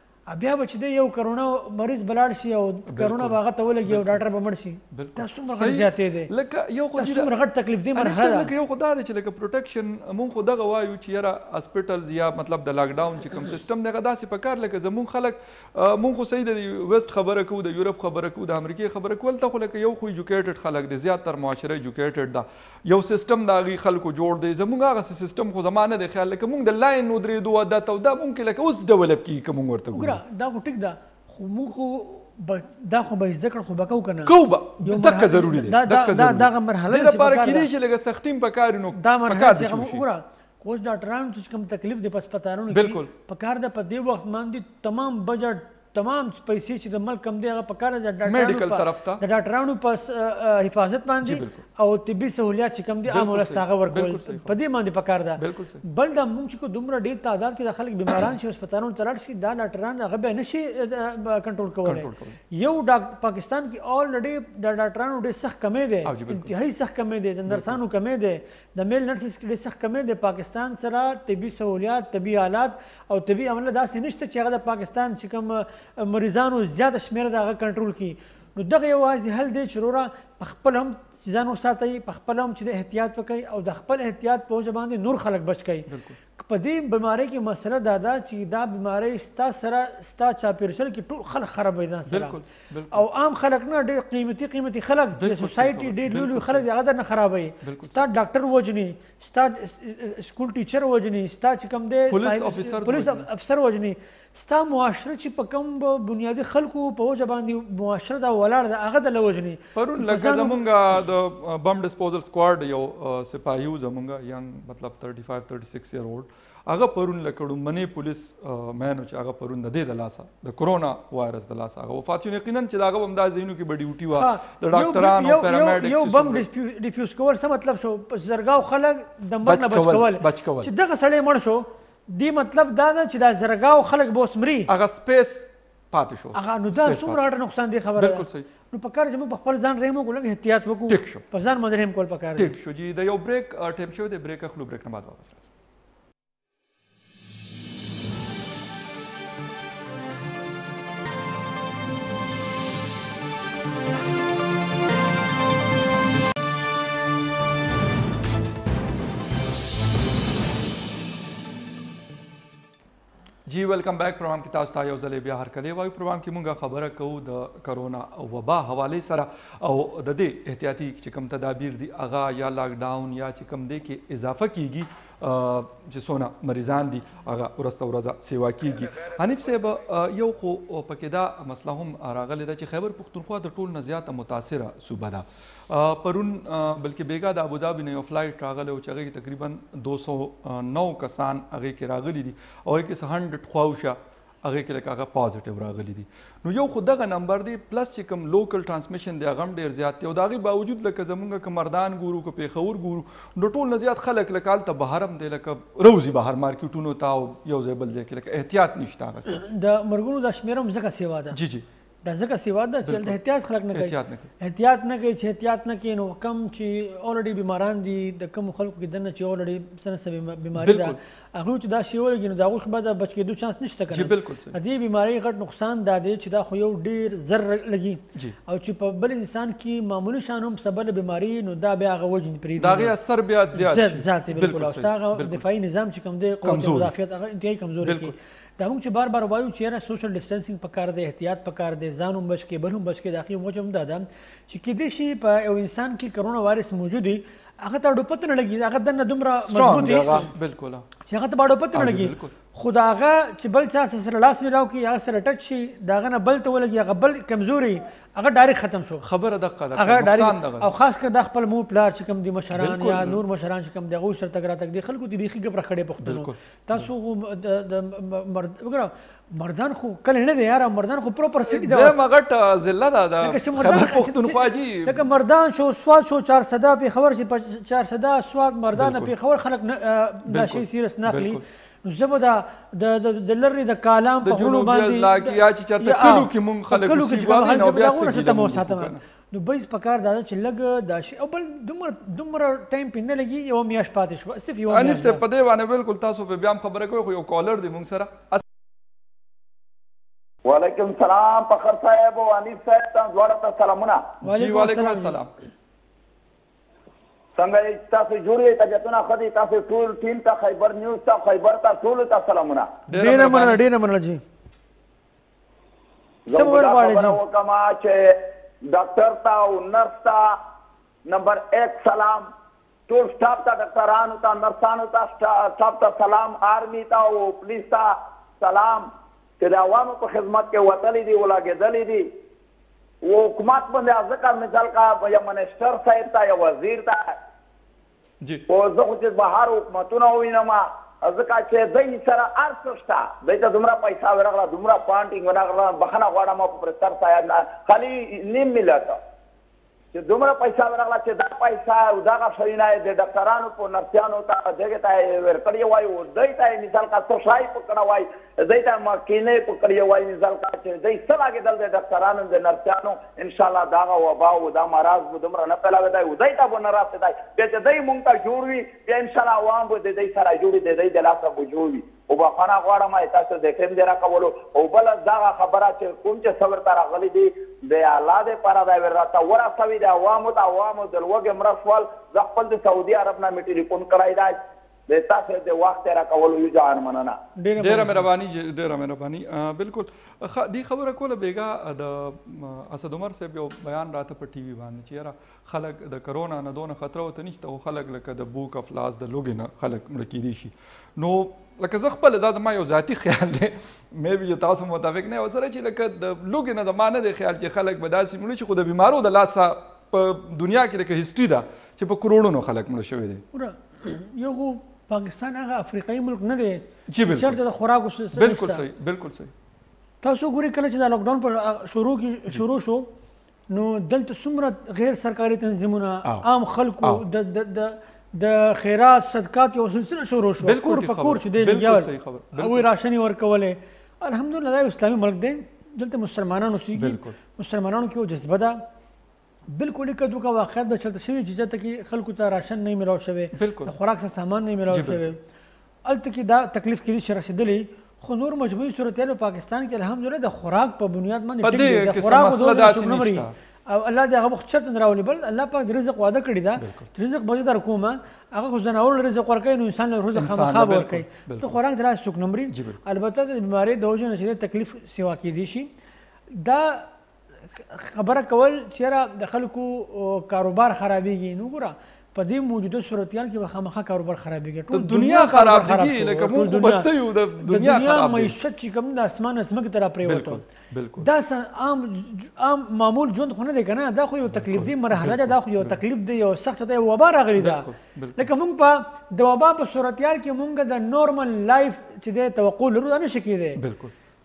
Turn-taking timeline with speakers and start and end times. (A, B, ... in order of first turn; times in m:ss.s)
0:00.3-0:06.3 A
0:02.9-0:04.2 B
0:04.9-0:07.3 B
0:07.0-0:08.5 A
0:07.9-0:30.2 B
0:29.9-0:37.7 A
0:34.2-0:40.0 B
0:39.0-1:32.4 A
0:42.7-0:43.1 B
0:48.2-0:49.2 B
0:51.2-0:51.6 B
0:53.1-0:54.6 B
0:55.4-0:55.8 B
1:01.8-1:02.4 B
1:06.0-1:06.5 B
1:07.5-1:07.8 B
1:25.9-1:26.2 B
1:32.0-1:33.0 B
1:32.9-1:50.6 A
1:35.2-1:36.7 B
1:37.6-1:38.0 B
1:42.1-1:43.2 B
1:49.8-2:06.5 B
2:04.1-2:14.7 A
2:09.4-2:10.7 B
2:14.7-2:17.2 B
2:16.3-2:22.6 A
2:18.0-2:18.5 B
2:20.9-2:21.2 B
2:22.4-2:25.5 B
2:43.4-3:29.4 B
3:29.3-3:31.4 A
3:31.3-3:31.6 B
3:32.0-3:52.9 A
3:32.8-3:33.2 B
3:33.7-3:34.3 B
3:40.5-3:41.0 B
3:43.9-3:44.6 B
3:52.6-3:55.5 B
3:53.5-4:10.3 A
3:56.4-3:56.9 B
3:57.8-3:58.2 B
4:09.4-4:10.8 B
4:11.0-4:19.0 A
4:11.7-4:12.3 B
4:19.0-4:20.7 B
4:19.8-4:32.0 A
4:22.5-4:23.2 B
4:26.0-4:26.8 B
4:31.5-4:35.0 B
4:33.2-4:55.2 A
4:38.7-4:39.1 B
4:40.3-4:41.4 B
4:44.2-4:49.0 B
4:54.7-4:58.4 B
5:00.4-5:04.0 C
5:04.2-5:05.2 A
5:04.2-5:05.3 B
5:07.4-5:12.7 C
5:12.9-5:13.6 B
5:12.9-5:14.2 A
5:16.3-5:18.2 C
5:16.3-5:17.2 A
5:18.7-5:20.4 C
5:21.1-5:22.3 C
5:22.9-5:28.9 C
5:29.4-5:32.1 C
5:33.0-5:37.2 C
5:38.5-5:49.0 C
5:49.9-6:24.4 C
6:24.9-6:27.2 C
6:27.4-6:28.1 A
6:27.6-6:53.2 B
6:53.3-6:58.6 A
6:56.9-6:57.4 B
6:58.1-6:59.3 B
7:00.0-7:02.9 A
7:03.5-7:18.6 A
7:10.4-7:12.7 B
7:16.7-7:17.2 B
7:19.5-7:25.2 A
7:23.3-7:23.7 B
7:24.7-7:25.0 B
7:25.9-7:45.7 A
7:31.4-7:33.3 B
7:36.6-7:36.9 B
7:40.1-7:41.6 B
7:42.5-7:42.8 B
7:46.3-7:46.9 A
7:47.5-8:00.4 A
7:54.7-7:58.4 B
8:00.0-8:01.1 B
8:01.0-8:13.6 A
8:04.3-8:05.8 B
8:07.4-8:08.3 B
8:13.6-8:13.9 B